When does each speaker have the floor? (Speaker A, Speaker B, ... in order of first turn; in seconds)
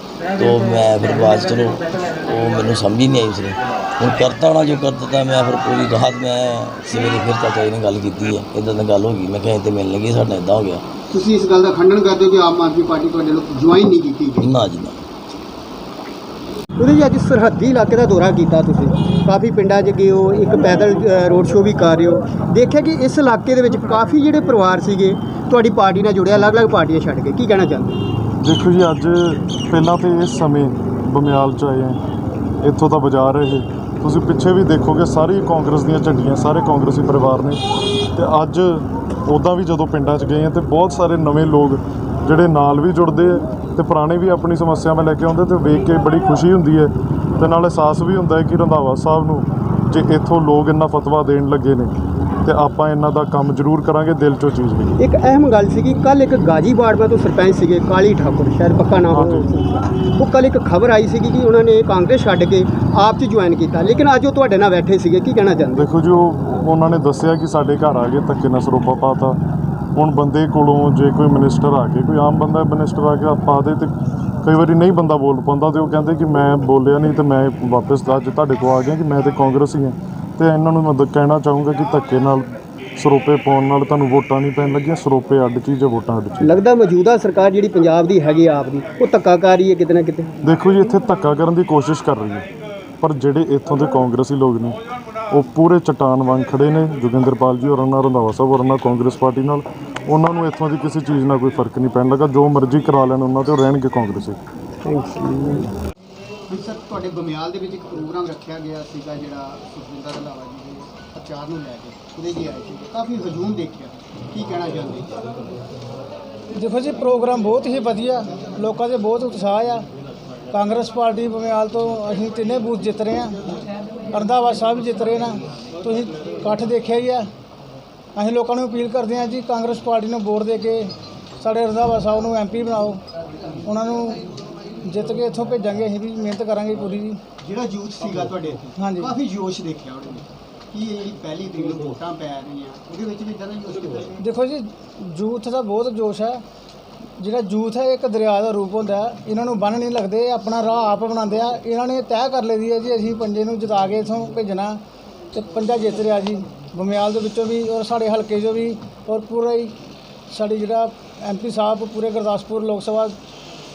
Speaker A: 0.3-10.8, 14.4-15.0
Speaker B: 11.1-14.5, 16.8-28.0, 55.0-65.9, 86.4-90.3, 104.9-105.6, 106.5-115.2, 137.4-144.2
Speaker C: 28.4-32.0, 32.6-37.6, 38.1-51.9, 52.5-55.0, 59.1-59.5, 65.8-69.4, 70.0-73.9, 74.4-82.5, 83.0-86.5, 90.4-92.5, 93.0-94.8, 95.3-104.4
Speaker D: 116.5-119.8, 120.5-123.5, 124.1-127.3, 128.2-133.0, 133.6-134.2, 134.8-137.2, 138.8-139.1, 144.2-146.4, 147.2-154.8, 155.3-159.7, 160.3-163.1